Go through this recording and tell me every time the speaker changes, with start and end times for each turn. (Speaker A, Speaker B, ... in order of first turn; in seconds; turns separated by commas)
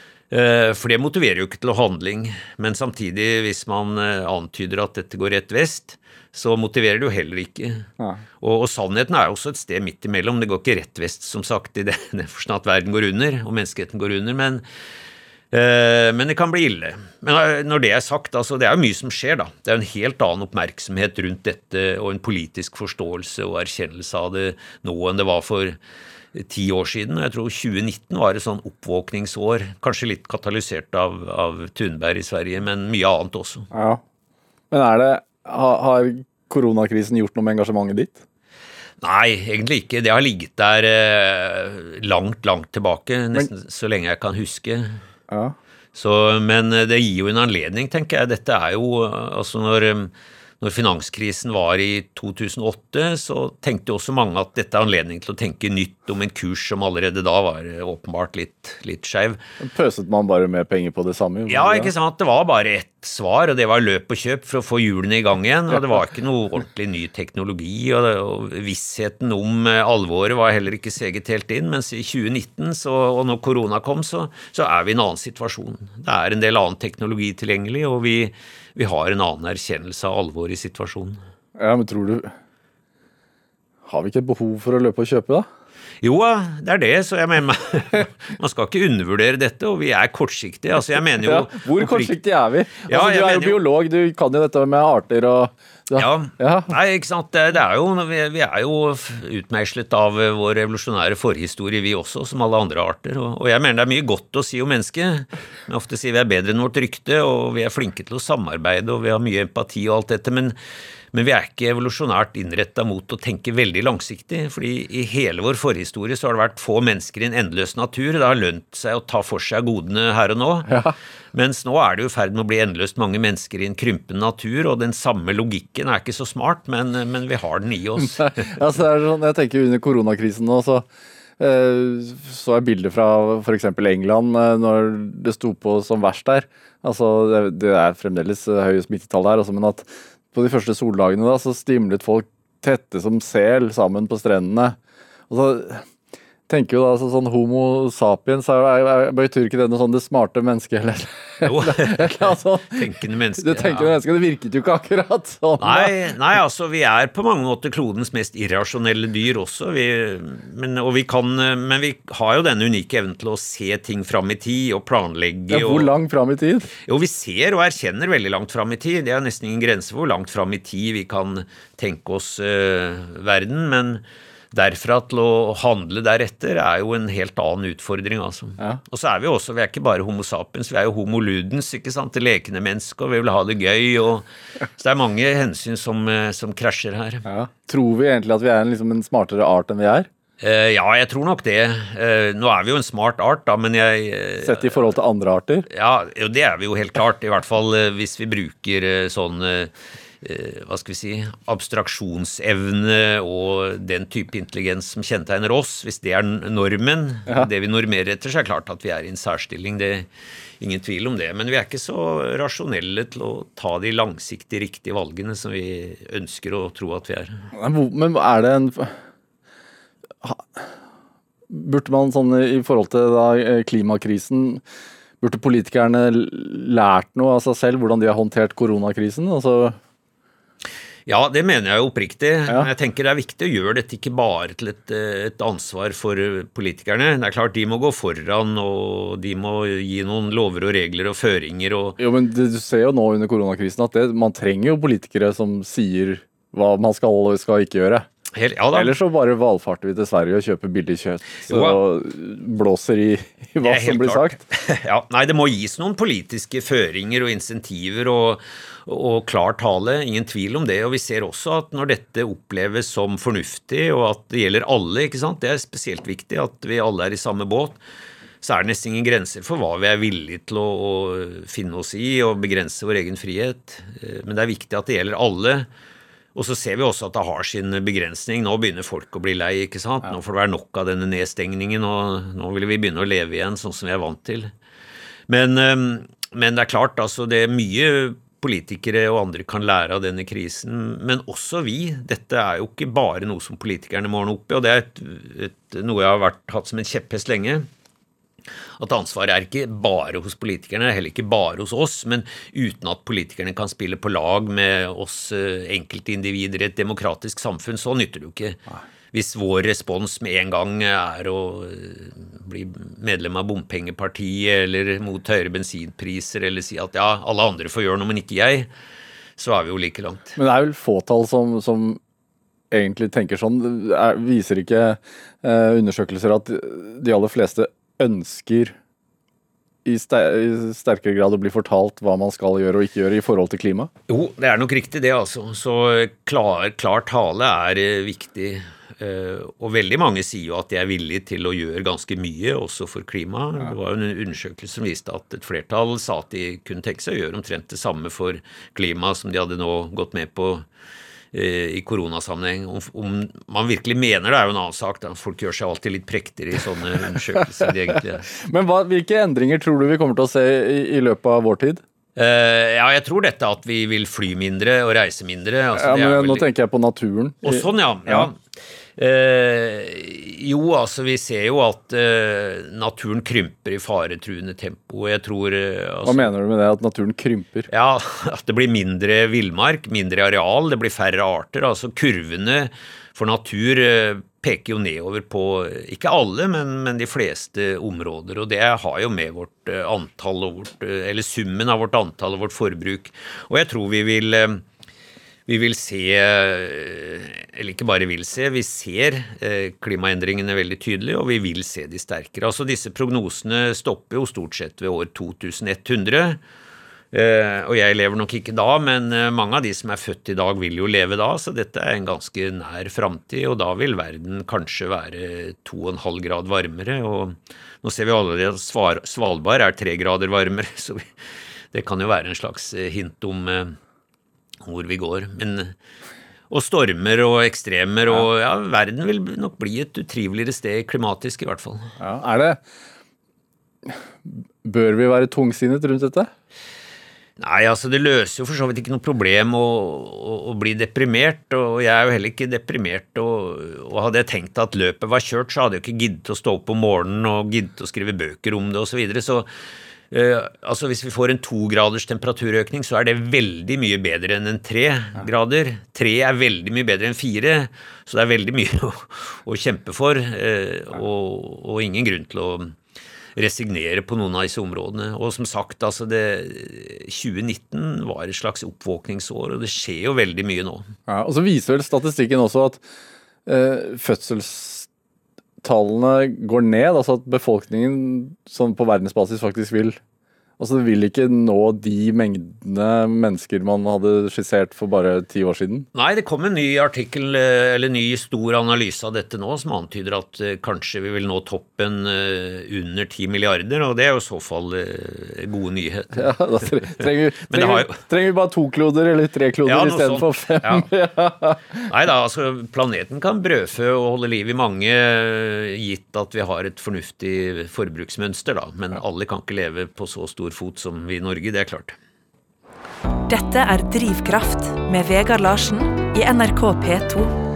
Speaker A: 0.3-7.9, Speaker A: 8.4-14.6, Speaker A: 15.5-25.8, Speaker A: 26.3-33.7, Speaker B: 33.7-34.0, Speaker B: 34.7-38.2, Speaker A: 39.0-45.0, Speaker B: 45.3-45.5, Speaker A: 45.9-59.4, Speaker B: 59.6-61.9, Speaker A: 61.5-81.2, Speaker B: 81.6-82.3, Speaker B: 83.8-85.5, Speaker A: 86.0-92.2, Speaker B: 91.2-96.7, Speaker A: 92.8-93.6, Speaker A: 96.0-110.5, Speaker A: 111.1-120.7, Speaker B: 120.7-120.9, Speaker A: 121.3-128.5, Speaker B: 128.2-130.8, Speaker B: 131.4-144.8, Speaker B: 145.3-145.8, Speaker B: 146.5-152.8, Speaker A: 151.4-153.9, Speaker B: 153.4-155.9, Speaker A: 155.6-165.9, Speaker B: 165.5-166.7, Speaker A: 166.8-184.2, Speaker A: 184.8-187.2, Speaker B: 187.2-190.1, Speaker A: 190.4-194.9, Speaker B: 194.4-195.7, Speaker A: 195.7-210.1, Speaker A: 210.6-217.4, Speaker B: 217.5-218.9, Speaker B: 220.2-220.7, Speaker B: 221.5-224.6, Speaker B: 225.2-229.8, Speaker A: 231.1-242.0, Speaker B: 242.0-248.1, Speaker A: 248.3-248.9, Speaker B: 248.7-254.4, Speaker A: 251.5-251.8, Speaker A: 253.6-267.8, Speaker A: 268.4-275.7, Speaker A: 276.3-284.5, Speaker A: 285.3-297.7, Speaker A: 298.8-318.7, Speaker A: 319.4-320.4, Speaker B: 320.4-322.0, Speaker B: 322.7-328.8, Speaker B: 329.8-333.9, Speaker A: 334.1-350.6, Speaker A: 351.3-358.2, Speaker B: 358.3-361.8, Speaker A: 362.1-366.4, Speaker B: 365.8-368.3, Speaker A: 367.4-368.4, Speaker A: 369.0-376.3, Speaker B: 376.0-377.7, Speaker A: 377.7-394.6, Speaker A: 395.5-406.4, Speaker A: 407.1-421.1, Speaker A: 421.7-423.8, Speaker A: 424.6-425.7, Speaker A: 426.5-431.9, Speaker B: 432.0-432.6, Speaker B: 433.9-436.3, Speaker A: 437.4-449.5, Speaker A: 450.1-462.8, Speaker A: 463.4-470.9, Speaker B: 471.1-472.8, Speaker B: 473.4-474.9, Speaker B: 475.6-480.0, Speaker B: 480.6-485.9, Speaker A: 485.9-496.3, Speaker B: 496.1-501.9, Speaker A: 497.4-497.9, Speaker A: 499.6-500.9, Speaker A: 501.9-512.0, Speaker C: 513.3-517.3